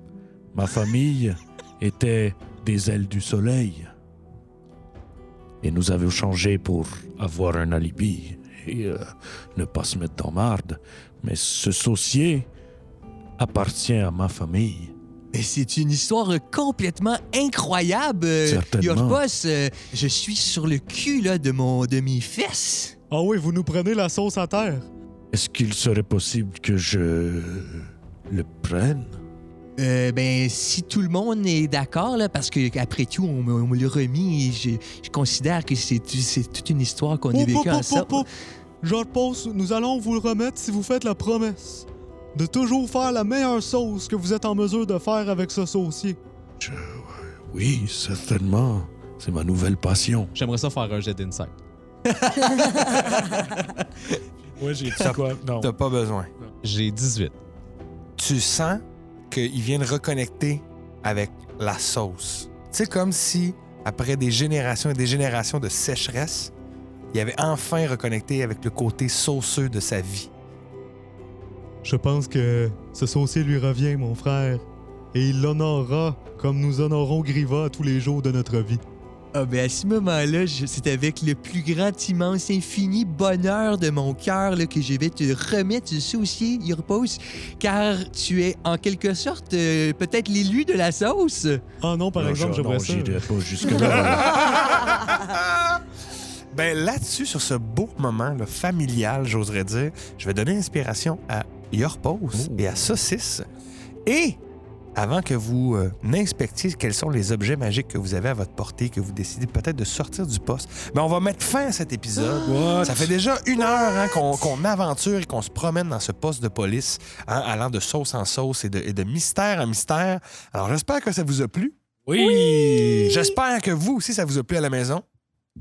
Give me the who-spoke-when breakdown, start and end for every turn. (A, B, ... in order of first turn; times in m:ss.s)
0:00.5-0:03.9 A
0:05.6-0:12.5 A
0:13.4-0:14.9 A
0:15.3-0:22.9 B
0:18.4-0:19.2 A
0:23.1-0:24.8 C
0:25.3-0:29.2 A
0:29.8-0:38.3 B
0:37.3-0:38.3 C
0:38.8-0:46.2 C
0:46.6-0:50.3 A
0:50.3-0:51.6 D
0:52.2-0:53.0 B
0:54.6-0:55.7 A
0:55.0-0:56.3 E
0:56.6-0:57.4 D
0:58.2-1:06.5 E
1:07.1-1:10.3 E
1:11.8-1:18.8 C
1:19.3-1:31.6 B
1:31.8-1:33.3 C
1:32.2-1:34.6 A
1:34.1-1:35.5 E
1:36.5-1:43.5 E
1:42.3-1:42.9 A
1:44.0-1:44.4 E
1:44.9-2:01.7 E
1:52.2-1:53.1 A
2:02.0-2:03.3 A
2:02.8-2:05.0 E